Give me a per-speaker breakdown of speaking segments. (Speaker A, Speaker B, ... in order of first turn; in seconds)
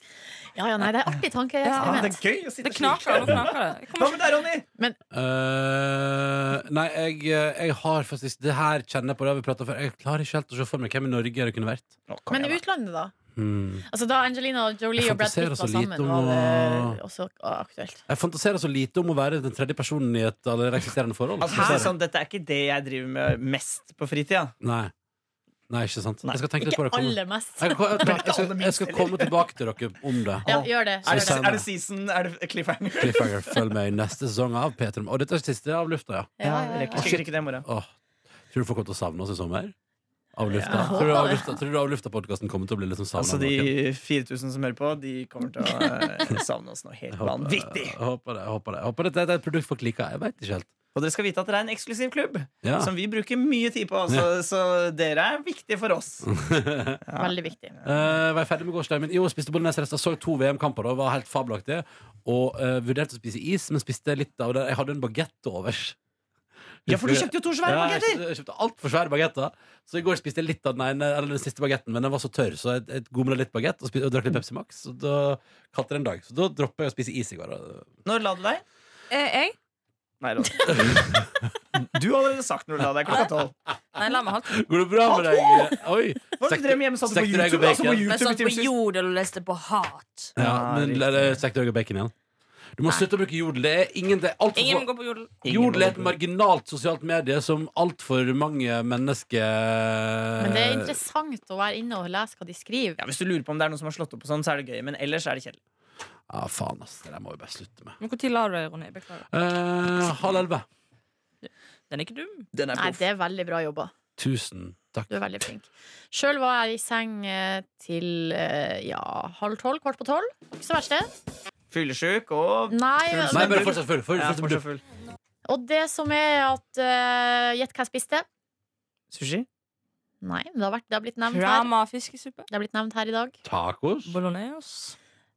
Speaker A: 0.5-2.2, 12.3-13.1, 13.9-18.0, 26.6-28.2, 30.4-31.4, 36.4-37.1, 40.7-41.6, 45.6-46.0, 57.2-57.7, 100.4-103.0, 112.7-113.9, 115.1-121.1, 122.7-123.8, 125.5-128.2, 130.2-131.7, 132.5-133.3
Speaker B: 1.6-2.1, 2.6-4.2, 79.1-79.5, 83.9-84.6, 88.0-90.3, 94.5-95.3, 108.0-109.2, 111.4-112.5, 131.3-132.5, 134.1-134.9
Speaker C: 1.8-4.7, 12.1-12.6, 21.4-24.5, 28.0-29.4, 30.4-33.3, 36.4-37.6, 40.5-41.3, 43.2-48.0, 50.9-56.3, 57.0-58.0, 66.9-68.2, 78.0-78.6, 80.2-81.2, 81.8-83.5, 85.0-85.7, 86.4-88.7, 90.3-91.4, 95.4-96.1, 103.0-105.6, 112.5-113.0, 121.7-124.8, 129.1-129.5
Speaker D: 5.1-11.9, 13.3-13.8, 14.9-17.0, 18.1-21.9, 24.6-24.9, 25.7-30.5, 31.0-31.7, 33.0-36.3, 37.0-37.9, 38.5-39.7, 40.3-43.7, 47.1-50.7, 52.6-52.9, 56.2-57.0, 57.8-66.0, 66.8-77.9, 80.7-81.3, 84.5-88.1, 90.3-92.1, 92.8-94.9, 95.4-101.0, 106.3-108.0, 109.3-110.7, 114.2-115.4, 123.3-124.6, 133.4-134.1